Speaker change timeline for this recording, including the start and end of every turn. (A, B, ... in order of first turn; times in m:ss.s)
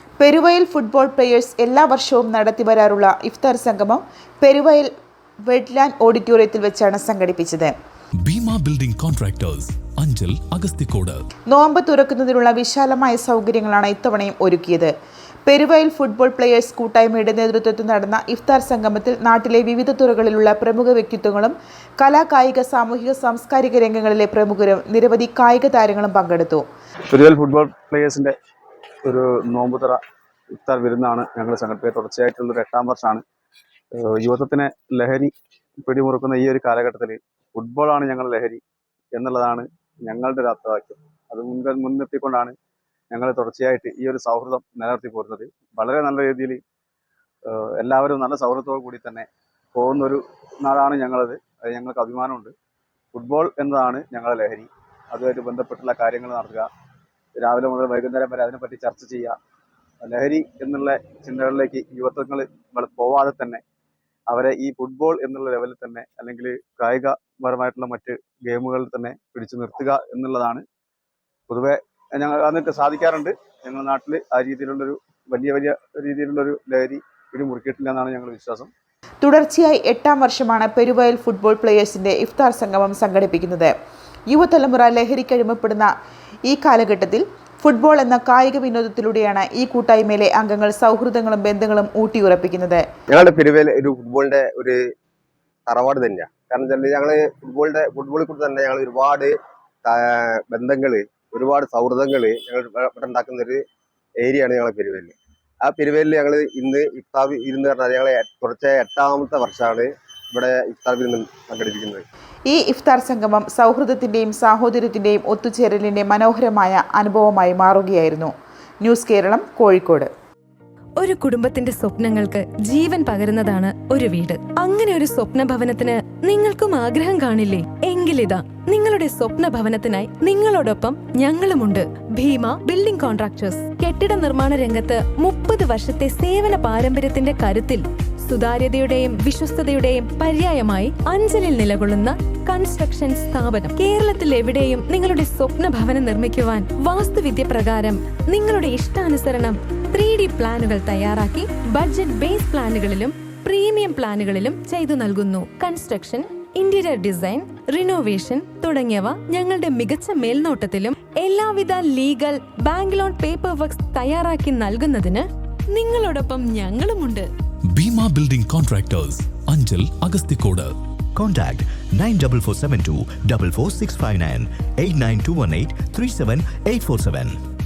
0:00.2-0:04.9 A
0:05.5-0:07.7 A
0:08.2-0:11.2 B
0:11.5-0:14.9 A
0:15.4-0:26.6 A
0:27.1-0:28.3 C
0:29.0-0:30.0 C
0:30.5-0:33.2 C
0:33.9-0:35.3 C
0:35.8-0:38.6 C
0:39.1-0:42.5 C
0:43.1-0:46.6 C
0:47.4-0:52.5 C
0:53.1-0:56.7 C
0:57.4-0:59.4 C
1:00.0-1:03.6 C
1:04.3-1:10.6 C
1:11.5-1:18.7 C
1:19.2-1:23.7 A
1:24.3-1:25.9 A
1:26.5-1:32.8 A
1:33.1-1:34.8 D
1:35.7-1:43.6 D
1:44.2-1:52.0 D
1:52.5-2:00.1 A
2:01.0-2:47.3 E
2:47.8-2:50.7 B
2:51.2-2:57.4 F